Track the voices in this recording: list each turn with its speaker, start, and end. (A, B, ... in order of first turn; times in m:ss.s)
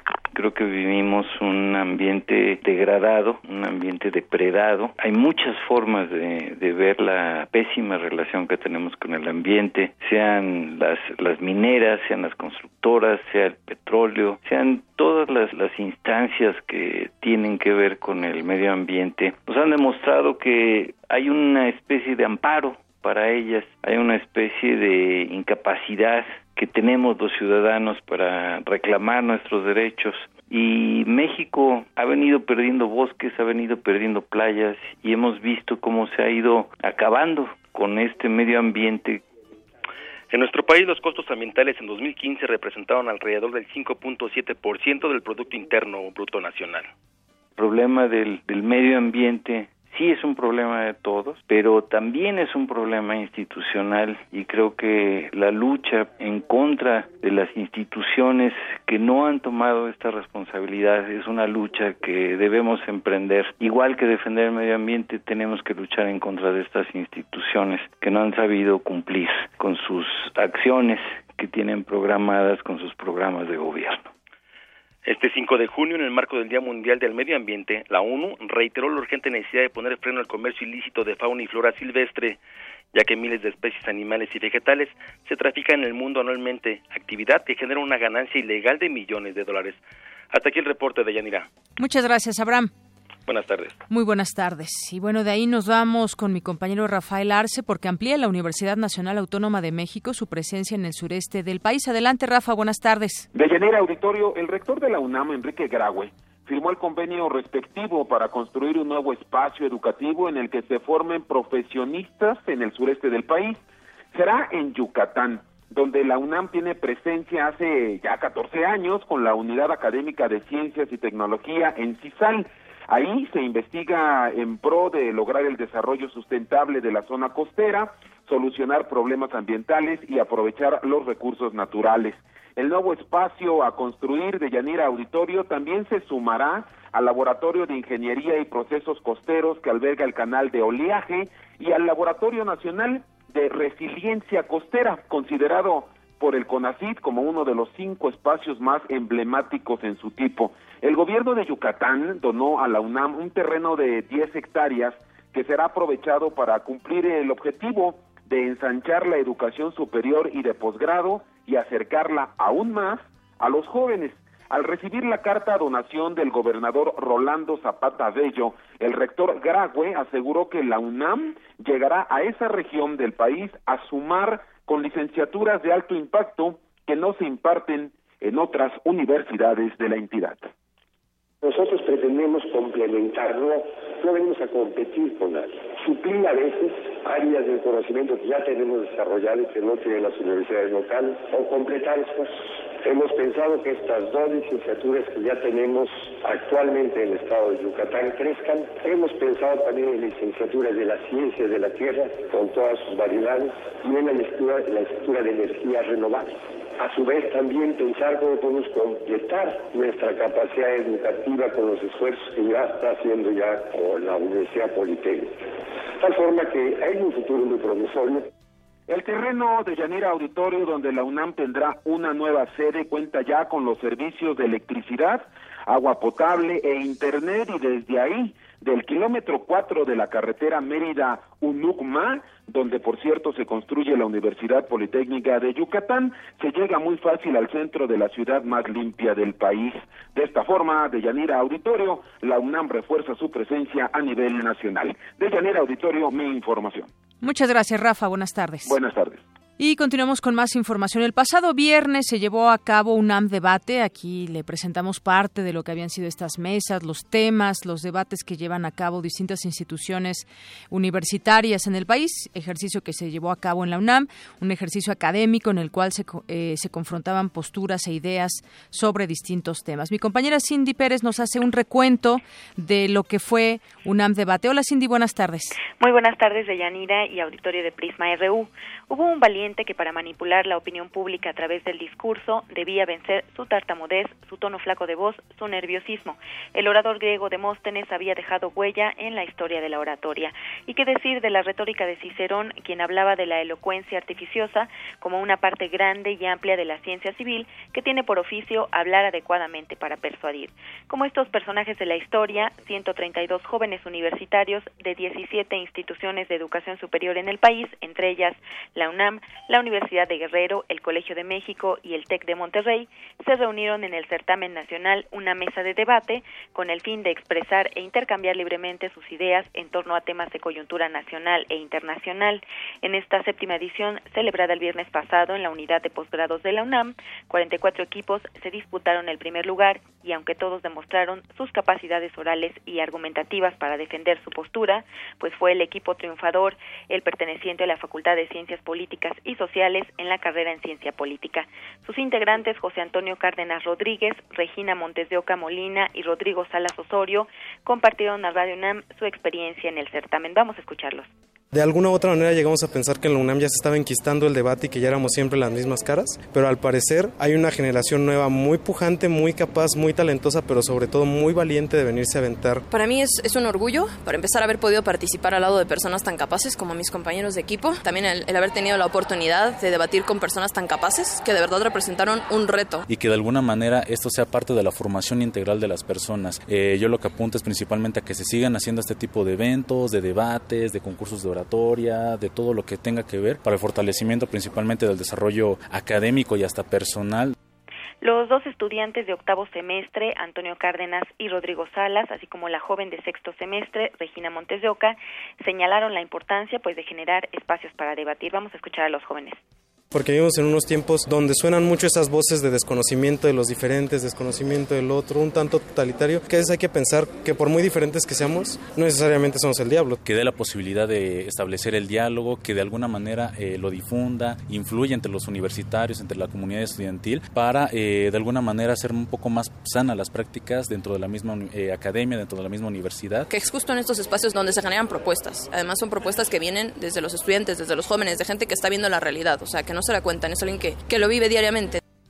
0:00.3-0:39.2 A
0:40.3-0:46.9 B
0:47.6-1:14.1 A
1:15.0-1:22.4 B
1:22.9-1:29.8 B
1:30.3-1:31.5 B
1:31.8-1:32.7 C
1:33.3-1:33.8 B
1:33.9-1:43.3 C
1:43.3-1:53.6 D
1:54.1-3:00.5 D
3:01.4-3:35.4 E
3:36.0-3:38.3 E
3:38.9-4:06.9 D
4:07.2-4:08.8 C
4:08.6-4:09.2 D
4:09.6-4:35.6 C
4:35.8-5:51.1 F
5:51.5-6:02.6 G
6:02.7-6:12.8 H
6:12.9-6:27.3 I
6:28.0-6:39.4 F
6:39.9-6:50.0 G
6:50.0-7:03.3 I
7:03.3-7:11.8 H